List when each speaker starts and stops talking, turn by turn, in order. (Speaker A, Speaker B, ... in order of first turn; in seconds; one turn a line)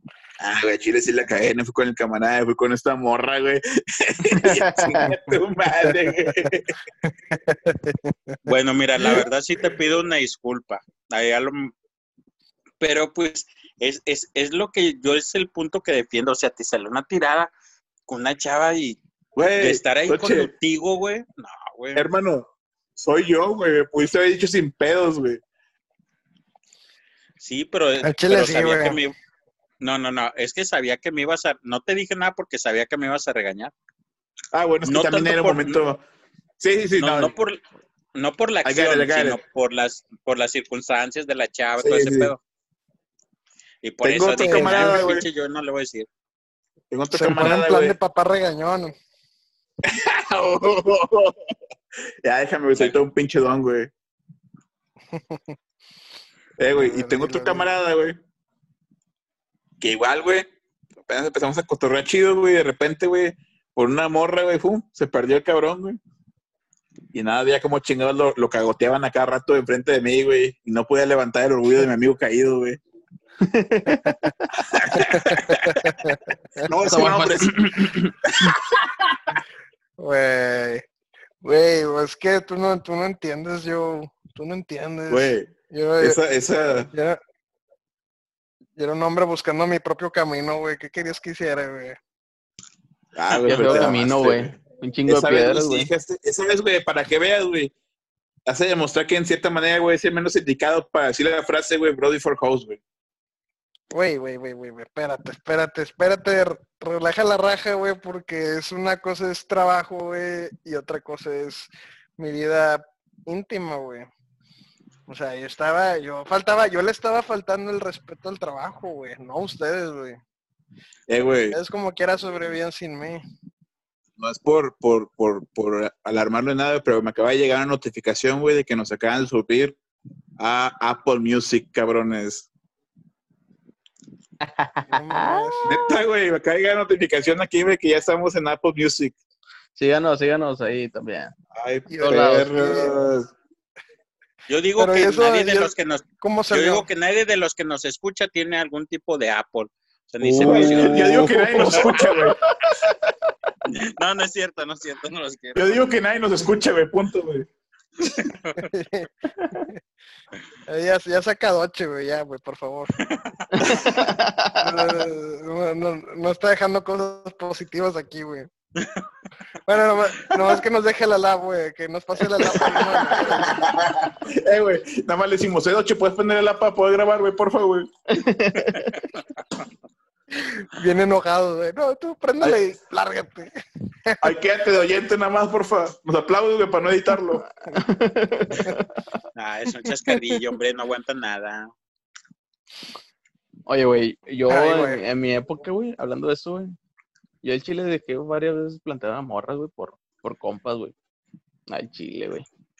Speaker A: 0.4-6.8
Speaker B: 5.1-6.5
Speaker B: 7.1-9.2
Speaker C: 8.4-11.7
Speaker C: 12.8-17.5
Speaker C: 18.1-19.0
Speaker A: 19.4-20.5
Speaker C: 19.6-22.1
Speaker A: 21.9-25.4
Speaker C: 27.4-29.1
Speaker B: 28.0-29.0
Speaker C: 29.8-33.7
Speaker A: 34.5-36.0
Speaker C: 34.9-35.8
Speaker A: 36.6-37.3
Speaker C: 37.0-37.6
Speaker C: 38.1-42.4
Speaker A: 38.6-39.4
Speaker A: 41.8-42.3
Speaker C: 43.8-46.1
Speaker A: 44.0-45.2
Speaker B: 44.4-45.0
Speaker A: 46.9-47.9
Speaker B: 47.1-48.9
Speaker A: 49.8-51.4
Speaker A: 52.2-53.9
Speaker B: 55.1-55.5
Speaker A: 56.6-58.2
Speaker B: 56.7-57.6
Speaker A: 59.8-60.5
Speaker A: 61.1-66.0
Speaker A: 67.1-72.8
Speaker D: 73.4-74.5
Speaker B: 73.9-74.1
Speaker A: 74.7-75.9
Speaker B: 74.9-76.6
Speaker A: 76.6-79.3
Speaker D: 76.8-78.2
Speaker B: 80.0-80.8
Speaker B: 81.4-86.2
Speaker A: 85.1-86.9
Speaker B: 86.9-87.2
Speaker B: 88.8-92.0
Speaker A: 93.1-97.7
Speaker D: 93.4-95.9
Speaker B: 93.6-94.0
Speaker A: 98.5-102.8
Speaker B: 103.9-114.1
Speaker B: 115.1-120.2
Speaker A: 121.1-121.6
Speaker B: 121.5-123.2
Speaker A: 124.2-129.8
Speaker A: 130.4-132.5
Speaker D: 134.4-135.7
Speaker B: 134.9-135.7
Speaker A: 135.7-139.2
Speaker D: 139.8-141.3
Speaker A: 141.5-143.3
Speaker B: 141.9-142.9
Speaker D: 142.0-142.9
Speaker C: 144.5-152.1
Speaker B: 144.8-146.9
Speaker D: 150.2-152.9
Speaker A: 150.4-152.4
Speaker C: 153.7-155.8
Speaker A: 155.6-157.5
Speaker C: 158.2-158.7
Speaker B: 158.7-159.1
Speaker D: 159.4-159.7
Speaker B: 160.7-162.9
Speaker D: 163.5-164.7
Speaker B: 164.6-168.5
Speaker B: 169.7-173.6
Speaker A: 173.2-177.9
Speaker D: 178.1-179.0
Speaker B: 180.3-183.5
Speaker A: 184.2-187.4
Speaker D: 187.3-189.0
Speaker C: 189.3-191.7
Speaker D: 193.7-196.8
Speaker B: 194.5-195.0
Speaker D: 197.4-200.9
Speaker D: 201.7-202.5